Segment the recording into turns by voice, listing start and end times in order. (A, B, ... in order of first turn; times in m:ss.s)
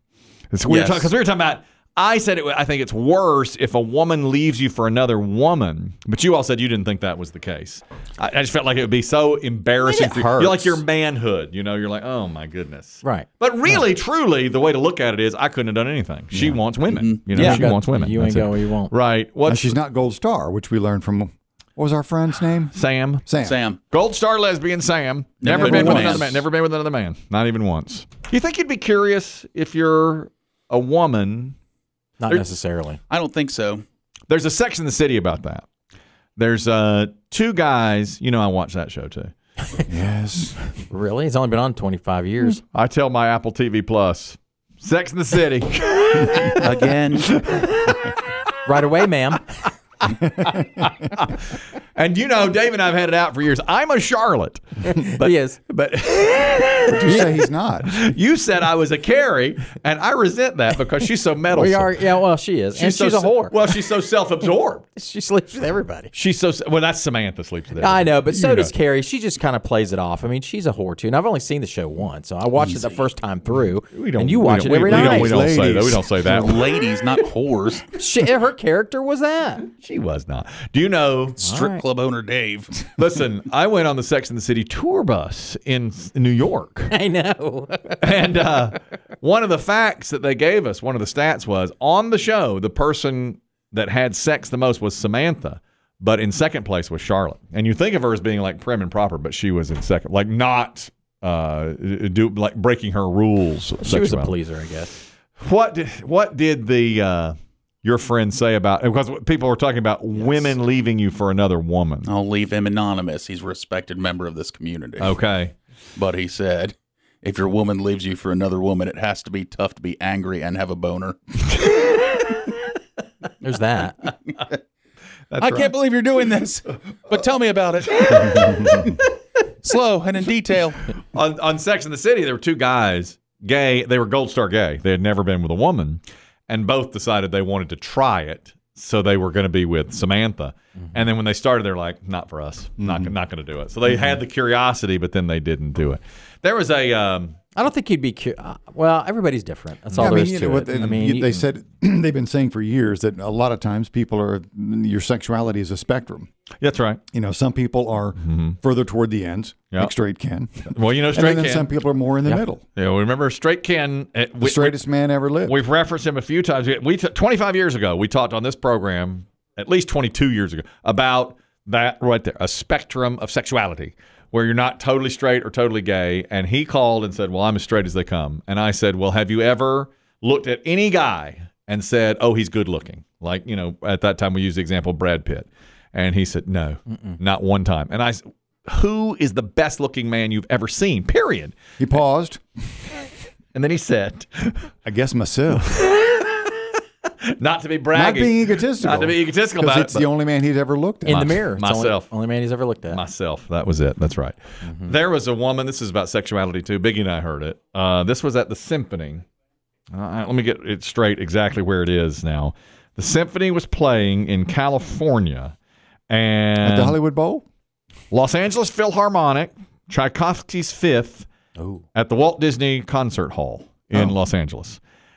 0:00.5-0:19.8 A
0:00.7-0:01.1 B
0:09.8-0:10.8 C
0:13.0-0:13.9 C
0:16.3-0:16.6 C
0:16.9-0:17.7 B
0:17.3-0:18.9 C
0:19.5-0:22.7 D
0:22.7-0:23.3 A
0:23.3-0:23.6 D
0:23.4-0:23.8 B
0:23.9-0:31.6 A
0:25.4-0:26.4 B
0:25.4-0:26.4 D
0:32.2-0:33.0 C
0:33.1-0:33.8 B
0:34.3-0:35.7 A
0:36.4-0:39.3 A
0:39.9-0:40.8 D
0:40.9-0:42.6 C
0:42.7-0:46.7 A
0:46.6-0:47.4 B
0:47.4-0:48.1 A
0:48.6-0:49.7 C
0:50.1-0:50.9 D
0:51.1-0:57.2 A
0:54.9-0:55.6 C
0:56.9-0:57.9 D
0:57.8-1:01.9 A
1:01.5-1:03.7 C
1:02.8-1:04.8 A
1:05.0-1:06.1 C
1:06.1-1:08.7 A
1:07.7-1:15.5 C
1:12.6-1:13.0 B
1:13.9-1:16.6 A
1:14.8-1:16.1 D
1:16.2-1:17.9 B
1:17.9-1:19.6 C
1:19.8-1:21.8 A
1:21.4-1:21.8 C
1:21.6-1:22.7 B
1:23.0-1:26.9 A
1:26.9-1:28.6 C
1:28.0-1:44.3 A
1:43.8-1:45.0 C
1:45.4-1:52.1 A
1:50.1-1:50.5 C
1:52.0-1:55.2 B
1:55.0-1:55.5 A
1:56.0-2:01.2 B
2:03.4-2:04.1 C
2:05.3-2:05.7 A
2:05.4-2:09.0 B
2:09.6-2:10.8 B
2:11.1-2:27.4 A
2:22.8-2:23.2 D
2:27.6-2:31.4 C
2:29.9-2:36.3 D
2:36.6-2:37.0 A
2:37.1-2:42.6 D
2:38.2-2:38.6 A
2:40.7-2:41.7 A
2:42.3-2:44.8 A
2:44.4-2:45.6 D
2:45.4-3:11.6 A
3:11.8-3:12.4 D
3:13.5-3:14.7 A
3:14.8-3:15.7 D
3:15.7-3:16.5 A
3:17.4-3:20.1 A
3:17.9-3:21.3 D
3:21.0-3:23.0 C
3:21.1-3:22.1 A
3:22.9-3:29.2 A
3:24.6-3:25.0 C
3:29.9-3:35.6 A
3:36.1-3:37.0 A
3:36.6-3:37.4 D
3:38.1-3:41.3 A
3:41.6-3:41.8 C
3:42.0-3:44.8 A